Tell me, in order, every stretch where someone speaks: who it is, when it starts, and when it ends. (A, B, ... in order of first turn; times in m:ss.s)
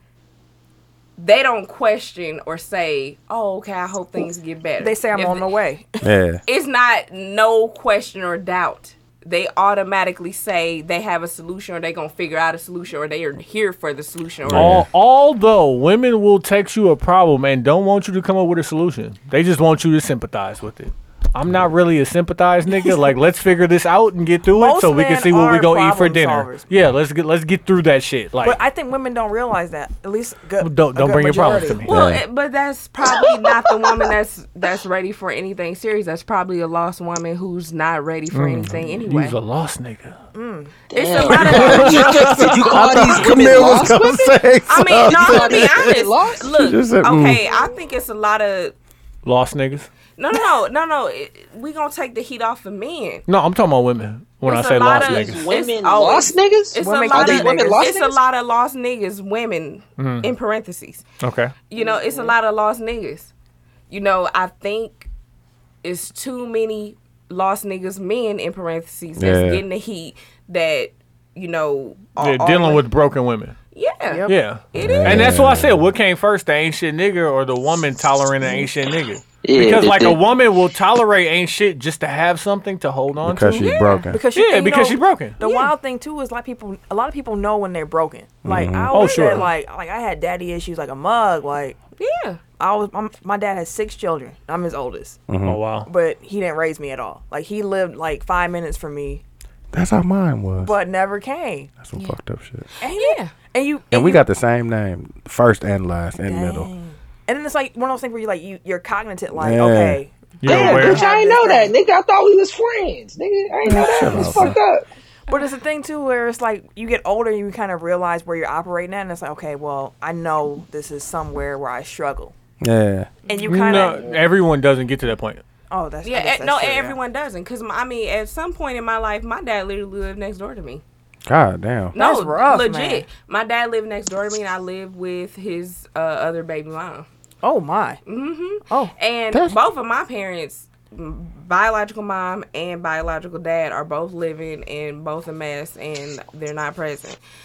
0:01.2-0:05.5 A
0:04.8-0:06.0 B
0:06.0-0:06.4 C
0:06.5-0:14.8 A
0:14.4-0:14.9 C
0:14.5-0:28.6 D
0:24.5-0:26.6 B
0:28.4-0:31.8 B
0:30.6-0:31.9 D
0:31.9-0:39.4 A
0:31.9-0:32.2 C
0:38.3-0:40.1 D
0:40.3-0:40.8 B
0:40.9-0:42.4 A
0:40.9-0:44.0 E
0:41.4-0:45.9 C
0:41.7-0:42.1 D
0:44.7-0:48.7 A
0:45.0-0:46.5 E
0:46.4-0:47.4 C
0:49.2-0:49.9 D
0:50.2-0:53.2 A
0:53.3-0:55.4 D
0:54.4-1:01.0 A
0:55.0-0:58.2 E
0:56.8-0:57.8 B
1:00.0-1:00.3 D
1:01.2-1:01.5 D
1:01.7-1:03.3 A
1:01.8-1:02.3 E
1:03.9-1:05.1 A
1:05.8-1:12.8 A
1:09.2-1:09.6 C
1:12.2-1:13.5 D
1:13.7-1:15.3 A
1:14.3-1:23.7 D
1:14.7-1:15.8 C
1:19.4-1:20.2 E
1:23.2-1:24.2 C
1:23.5-1:24.1 A
1:24.1-1:31.8 B
1:24.3-1:25.4 D
1:25.4-1:25.7 A
1:28.4-1:29.2 C
1:28.9-1:29.5 D
1:32.0-1:32.4 A
1:32.6-1:35.2 B
1:35.3-1:35.6 C
1:35.4-1:35.9 D
1:35.9-1:39.2 B
1:39.7-1:40.8 C
1:40.6-1:41.7 B
1:41.8-1:42.6 C
1:42.8-1:43.4 A
1:42.8-1:44.2 B
1:43.9-1:46.7 C
1:46.3-1:51.7 B
1:49.4-1:50.0 C
1:50.4-1:51.0 D
1:50.4-1:54.8 E
1:53.7-1:54.6 C
1:55.3-2:02.3 B
2:02.6-2:03.1 C
2:03.3-2:04.1 B
2:03.4-2:05.4 D
2:05.7-2:07.0 B
2:06.0-2:10.8 A
2:11.2-2:11.9 C
2:11.9-2:17.1 A
2:11.9-2:13.1 B
2:17.4-2:18.0 B
2:18.0-2:27.2 A